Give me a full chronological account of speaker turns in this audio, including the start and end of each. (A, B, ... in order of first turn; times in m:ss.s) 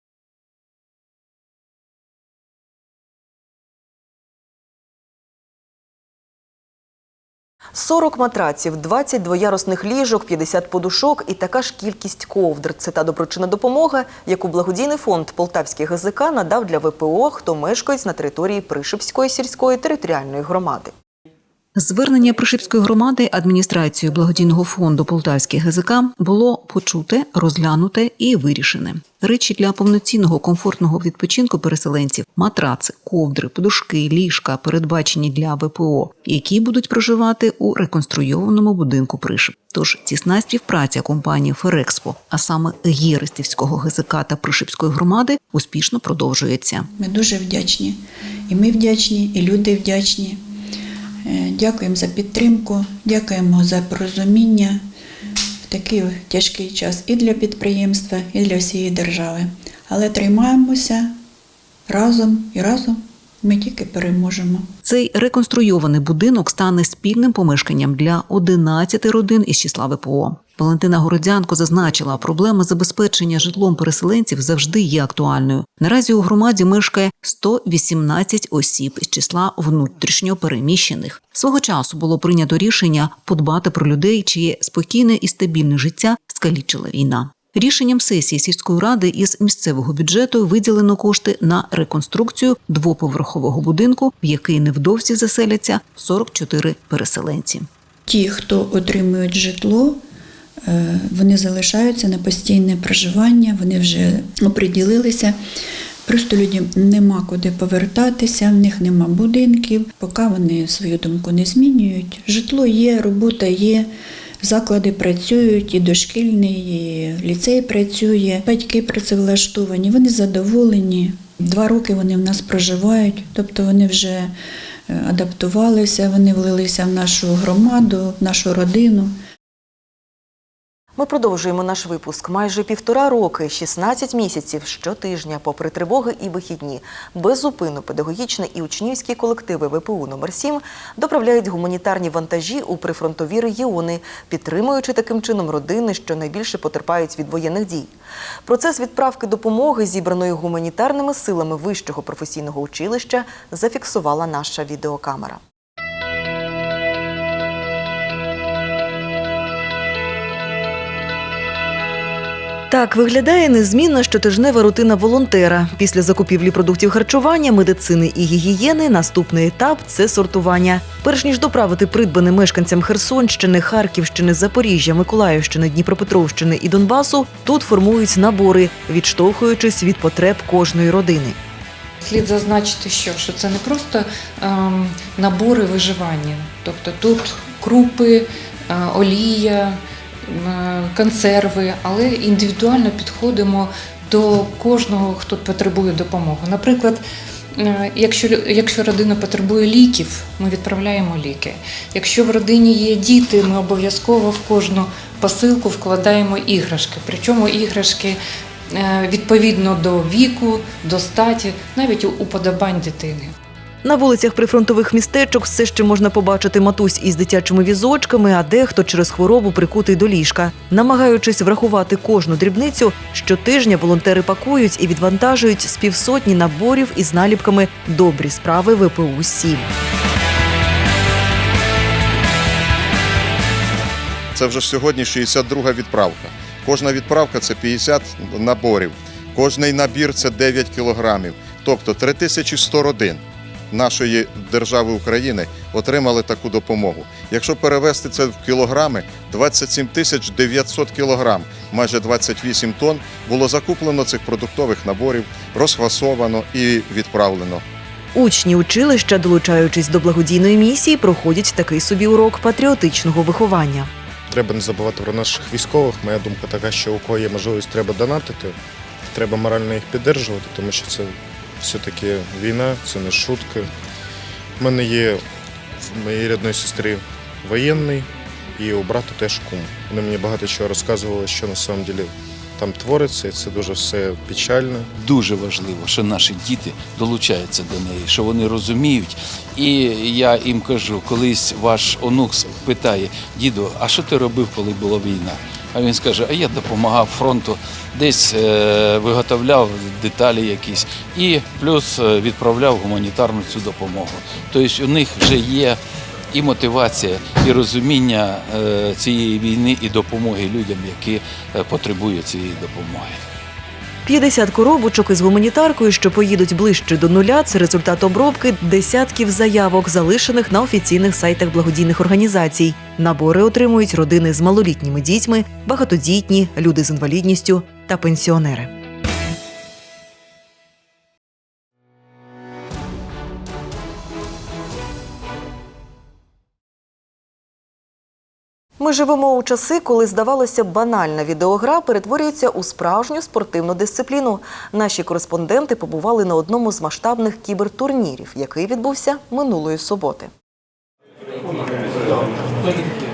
0:07.7-0:20.9 A
0:21.8-0:46.9 B
0:46.9-0:50.4 C
0:51.2-0:54.8 C
0:55.7-1:01.2 C
1:01.9-1:04.7 C
1:04.8-1:37.7 B
1:38.1-1:40.0 C
1:40.6-1:45.4 C
1:46.0-2:04.3 C
2:04.9-2:09.2 C
2:11.0-2:27.9 A
2:28.4-2:35.4 A
2:42.7-3:01.4 A
3:02.0-3:33.3 D
3:33.8-3:49.7 A
3:54.3-4:17.6 E
4:18.1-4:23.9 A
4:24.3-4:28.5 F
4:29.1-4:33.7 F
4:34.6-4:35.2 F
4:35.8-4:44.9 F
4:45.0-5:05.8 G
5:06.3-5:13.2 G
5:14.0-5:28.7 A
5:38.8-5:50.3 A